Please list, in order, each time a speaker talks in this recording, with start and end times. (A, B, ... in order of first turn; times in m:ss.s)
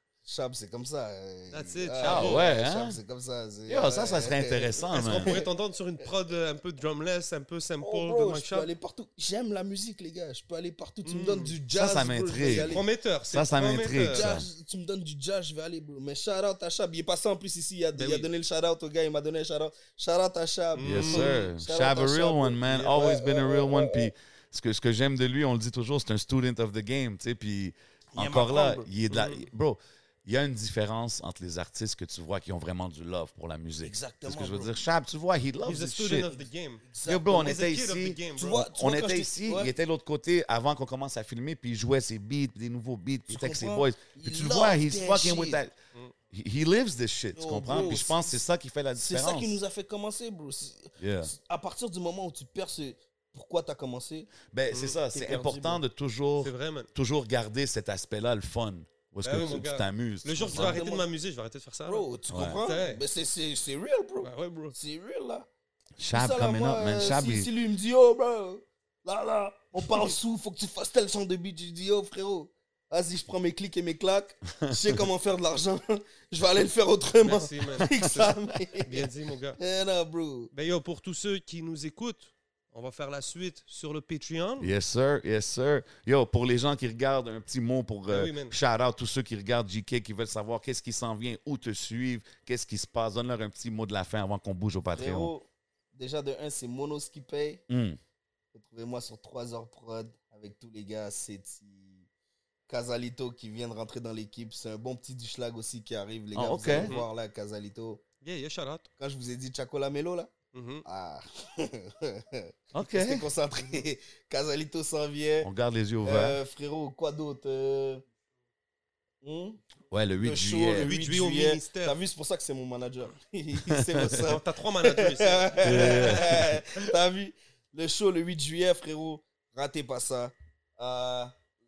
0:00.2-0:05.5 A
0:01.5-0:02.5 B
0:02.0-0:03.0 C
0:03.7-0:05.3 C
0:04.9-0:08.7 B
0:07.8-0:12.8 A
0:11.0-0:11.5 B
0:11.7-0:14.4 C
0:12.5-0:14.3 B
0:14.1-0:24.1 A
0:17.9-0:18.3 B
0:20.8-0:21.4 B
0:20.8-0:36.3 C
0:28.1-0:28.9 A
0:29.1-0:29.4 B
0:33.8-0:34.7 A
0:35.6-0:38.6 B
0:36.3-0:37.6 A
0:37.0-0:45.7 C
0:38.3-0:39.7 A
0:43.3-0:45.6 A
0:46.3-0:49.6 C
0:47.3-0:48.4 A
0:47.7-0:47.9 B
0:49.0-0:54.3 A
0:51.0-0:51.3 C
0:54.5-1:00.8 C
0:54.7-0:55.0 B
0:55.1-0:55.8 A
0:56.4-0:56.9 B
0:59.2-1:02.0 B
1:00.4-1:01.1 A
1:01.9-1:05.5 A
1:02.3-1:02.6 C
1:02.6-1:03.0 B
1:04.2-1:04.8 B
1:06.0-1:07.5 C
1:06.1-1:20.5 A
1:14.6-1:15.0 C
1:17.2-1:19.6 B
1:20.5-1:24.7 B
1:24.6-1:35.3 C
1:28.1-1:28.5 B
1:34.9-1:37.6 A
1:37.7-1:38.0 C
1:38.5-1:42.1 A
1:42.7-1:48.0 A
1:46.3-1:46.9 C
1:46.8-1:47.1 B
1:48.2-1:48.9 B
1:49.0-1:50.3 A
1:50.5-1:50.8 B
1:50.8-1:55.5 A
1:52.7-1:53.3 C
1:55.4-1:56.4 C
1:56.0-1:58.0 A
1:59.2-1:59.6 A
1:59.9-2:01.0 C
2:00.2-2:11.3 A
2:00.8-2:02.0 B
2:03.7-2:04.3 C
2:04.1-2:06.9 B
2:05.6-2:06.6 C